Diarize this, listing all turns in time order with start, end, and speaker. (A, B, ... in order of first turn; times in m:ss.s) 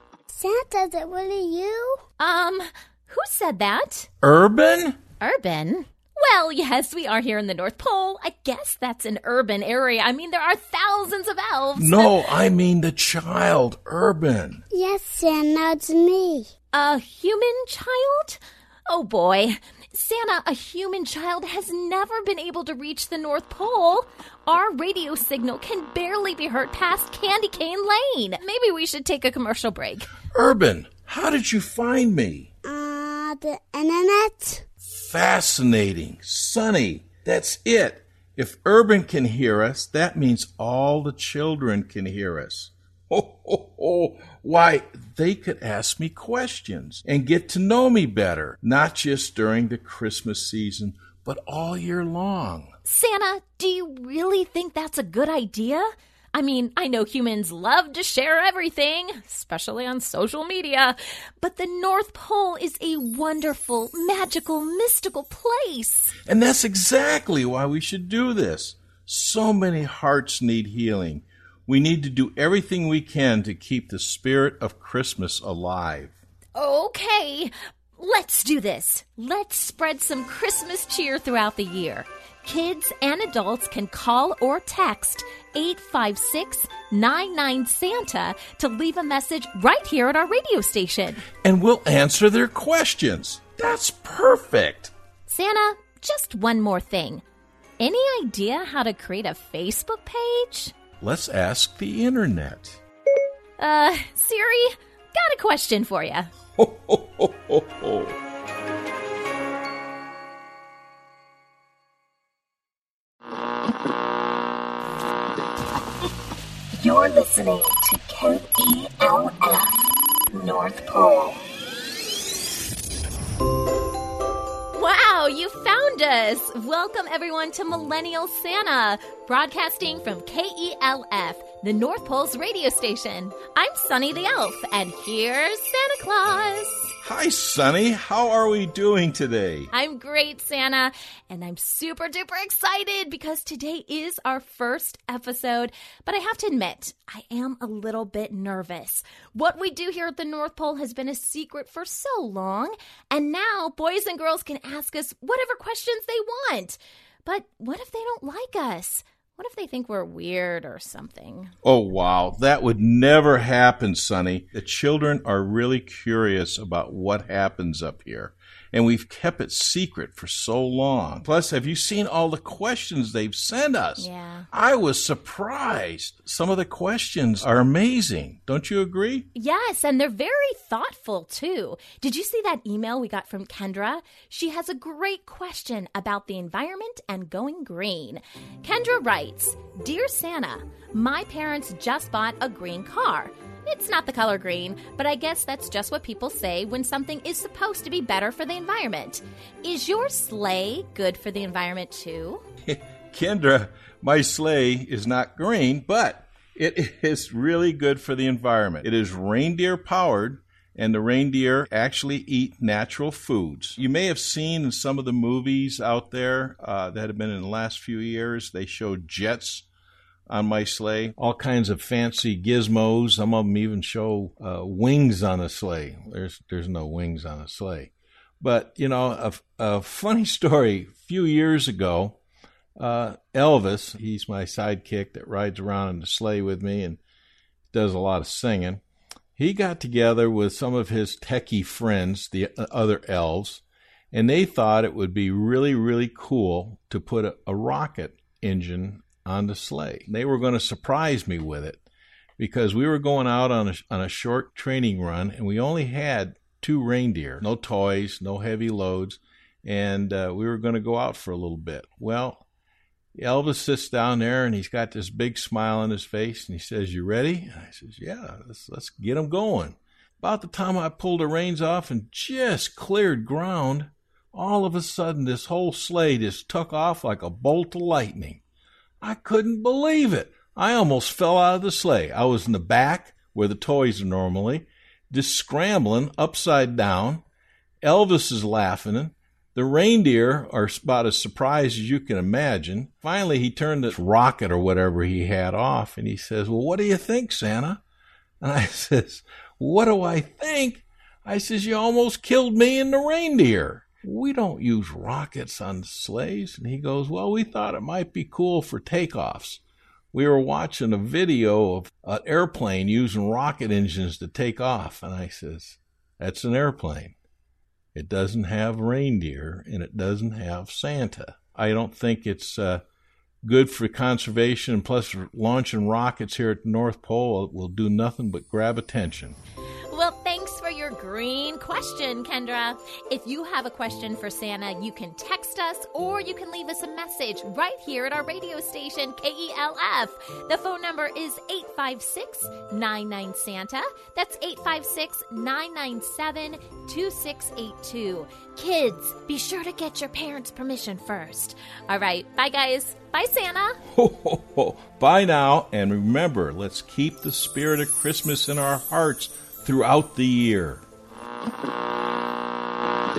0:00.3-0:02.0 A
0:02.2-0:04.1 B
0:04.2-0:05.0 C
0:05.2-0:12.2 B
0:11.8-0:14.6 C
0:14.7-0:16.5 A
0:16.7-0:30.1 B
0:30.3-0:32.5 C
0:32.6-0:34.6 A
0:34.8-0:52.7 C
0:52.9-1:06.1 B
1:06.2-1:16.2 C
1:16.6-1:31.2 B
1:31.3-1:34.9 C
1:35.3-1:37.2 B
1:37.8-1:40.8 B
1:41.0-1:42.8 C
1:43.6-1:46.3 B
1:46.6-1:48.1 C
1:56.7-2:01.4 D
2:04.8-2:16.9 B
2:17.0-2:19.7 C
2:19.7-2:41.5 B
2:41.6-2:59.3 C
2:54.0-2:54.5 B
2:59.4-3:22.4 B
3:22.7-3:39.7 C
3:40.3-3:52.2 C
3:52.8-3:57.0 C
3:57.7-3:58.8 C
3:59.4-4:11.8 C
4:12.4-4:22.4 C
4:23.2-4:38.4 C
4:39.0-4:47.2 C
4:47.8-4:57.8 C
4:58.4-5:09.6 C
5:10.1-5:17.2 C
5:18.0-5:22.8 C
5:23.4-5:29.4 C
5:29.9-5:53.8 B
5:53.9-6:00.8 C